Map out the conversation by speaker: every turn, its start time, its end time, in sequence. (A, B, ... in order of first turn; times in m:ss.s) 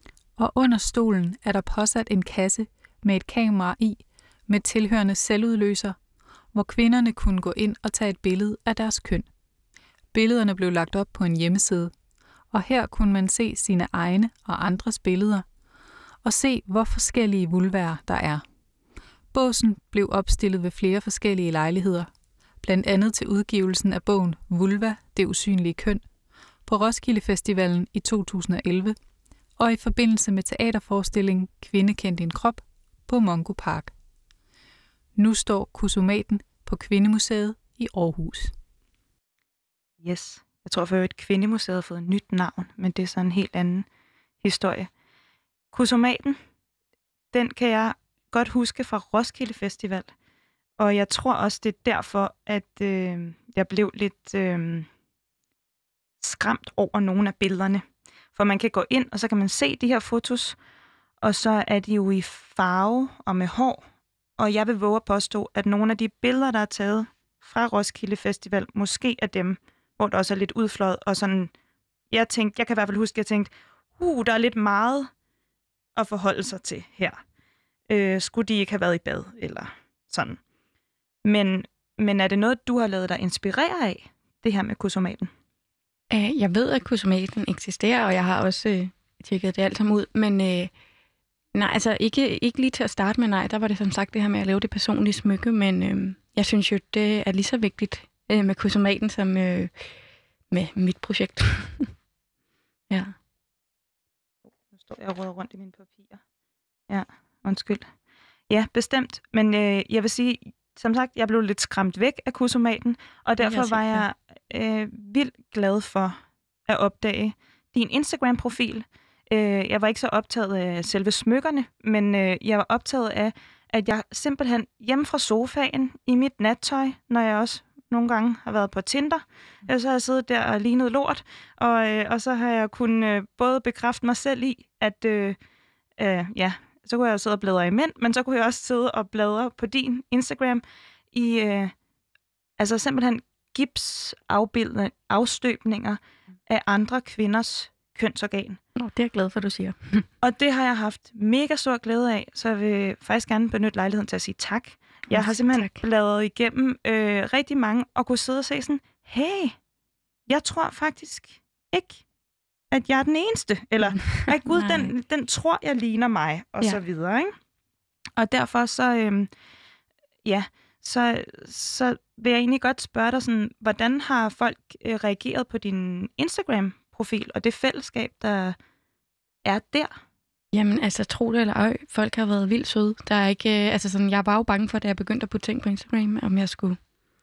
0:00.4-0:06.0 A
0:06.5-0:09.3 A
0:10.1-0:11.9 A
0:12.5-0:15.4 A
0:16.2-0:18.4 A
0:19.3-0:22.1 A
0:22.6-0:26.0 A
0:26.6-0:28.9 A
0:29.6-0:33.9 A
0:35.2-0:38.5 A
0:40.0-0:43.8 B
0:44.4-0:44.9 B
0:45.7-0:46.4 B
0:47.3-0:50.1 B
0:50.8-0:54.9 B
0:56.2-0:57.8 B
0:58.3-1:00.6 B
1:01.2-1:03.8 B
1:04.4-1:11.5 B
1:12.1-1:15.1 B
1:16.0-1:17.2 B
1:17.9-1:20.4 B
1:21.2-1:25.3 B
1:26.1-1:30.7 C
1:31.5-1:39.9 C
1:40.5-1:41.9 C
1:42.9-1:43.1 C
1:44.7-1:46.2 B
1:46.9-1:47.9 B
1:48.5-2:15.4 B
1:53.4-1:54.0 C
2:16.0-2:21.7 B
2:22.6-2:28.6 B
2:28.8-2:30.1 C
2:30.2-2:39.6 B
2:35.1-2:35.8 C
2:40.3-2:42.0 B
2:42.7-2:47.3 B
2:44.0-2:44.9 C
2:48.2-2:49.3 B
2:50.2-2:58.6 B
2:59.4-2:59.9 B
3:00.5-3:06.8 C